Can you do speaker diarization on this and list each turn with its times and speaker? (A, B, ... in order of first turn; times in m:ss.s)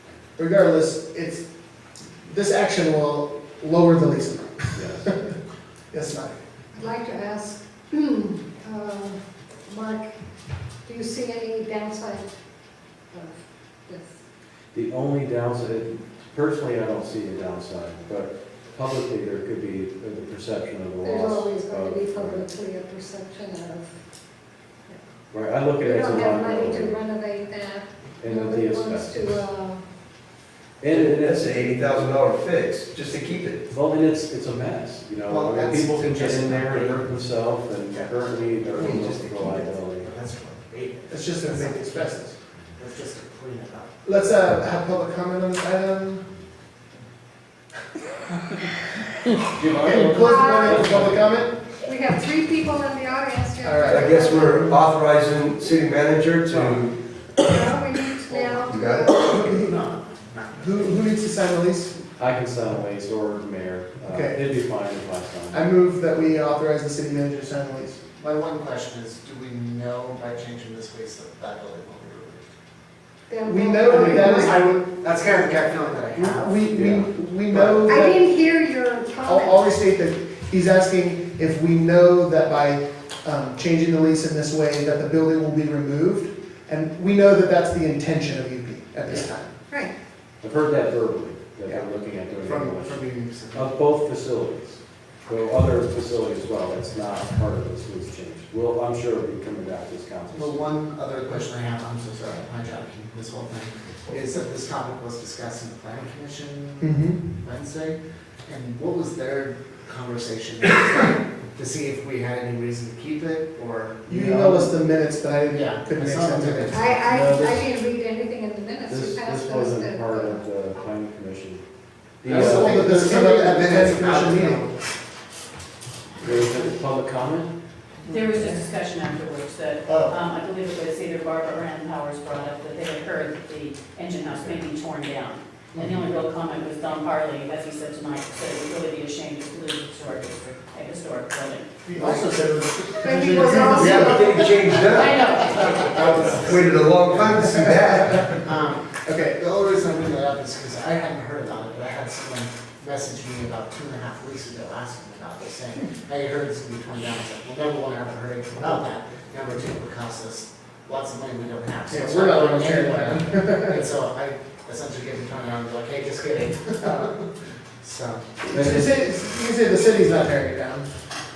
0:00.4-0:01.4 A
0:02.2-0:05.3 A
0:04.8-0:05.1 B
0:05.9-0:06.4 A
0:06.7-0:10.1 C
0:10.8-0:12.3 C
0:13.1-0:14.2 C
0:14.7-0:22.5 B
0:21.0-0:23.9 C
0:25.3-0:27.0 B
0:25.8-0:29.8 C
0:28.2-0:29.4 B
0:30.8-0:31.8 B
0:30.9-0:33.6 D
0:33.7-0:40.1 B
0:35.3-0:37.1 E
0:38.7-0:39.6 D
0:38.8-0:42.2 E
0:41.1-0:42.4 A
0:42.7-0:43.9 E
0:44.0-0:46.2 A
0:49.5-0:51.3 B
0:49.8-0:51.6 A
0:50.2-0:50.8 C
0:51.8-0:54.4 C
0:53.6-0:54.8 A
0:53.8-0:56.9 D
0:56.5-0:56.8 A
0:57.4-0:59.2 C
0:58.3-0:58.6 E
0:58.5-0:59.6 D
0:59.2-1:01.1 E
1:00.6-1:01.9 A
1:02.2-1:05.7 B
1:04.0-1:04.4 A
1:05.5-1:08.0 A
1:08.1-1:12.4 E
1:13.3-1:14.6 C
1:13.4-1:14.5 A
1:13.8-1:17.9 E
1:16.1-1:18.2 A
1:17.8-1:19.6 C
1:19.2-1:29.3 A
1:29.1-1:29.5 E
1:29.7-1:29.9 C
1:30.4-1:40.6 B
1:32.4-1:33.7 E
1:40.3-1:54.7 E
1:46.8-1:47.2 A
1:54.1-1:56.7 A
1:55.5-1:57.0 E
1:56.7-2:00.4 C
1:57.0-1:57.7 B
1:58.9-2:01.6 B
2:02.2-2:03.0 B
2:02.2-2:04.6 A
2:02.2-2:04.8 E
2:06.2-2:07.5 B
2:08.0-2:21.6 F
2:08.1-2:08.6 E
2:09.9-2:10.2 E
2:15.7-2:16.0 E
2:21.8-2:24.3 A
2:23.0-2:25.0 C
2:23.6-2:28.3 D
2:24.1-2:26.3 F
2:25.5-2:27.5 E
2:27.5-2:28.2 A
2:28.4-2:48.3 E
2:29.0-2:29.4 A
2:41.9-2:43.8 A
2:48.4-2:50.9 A
2:48.5-2:48.9 B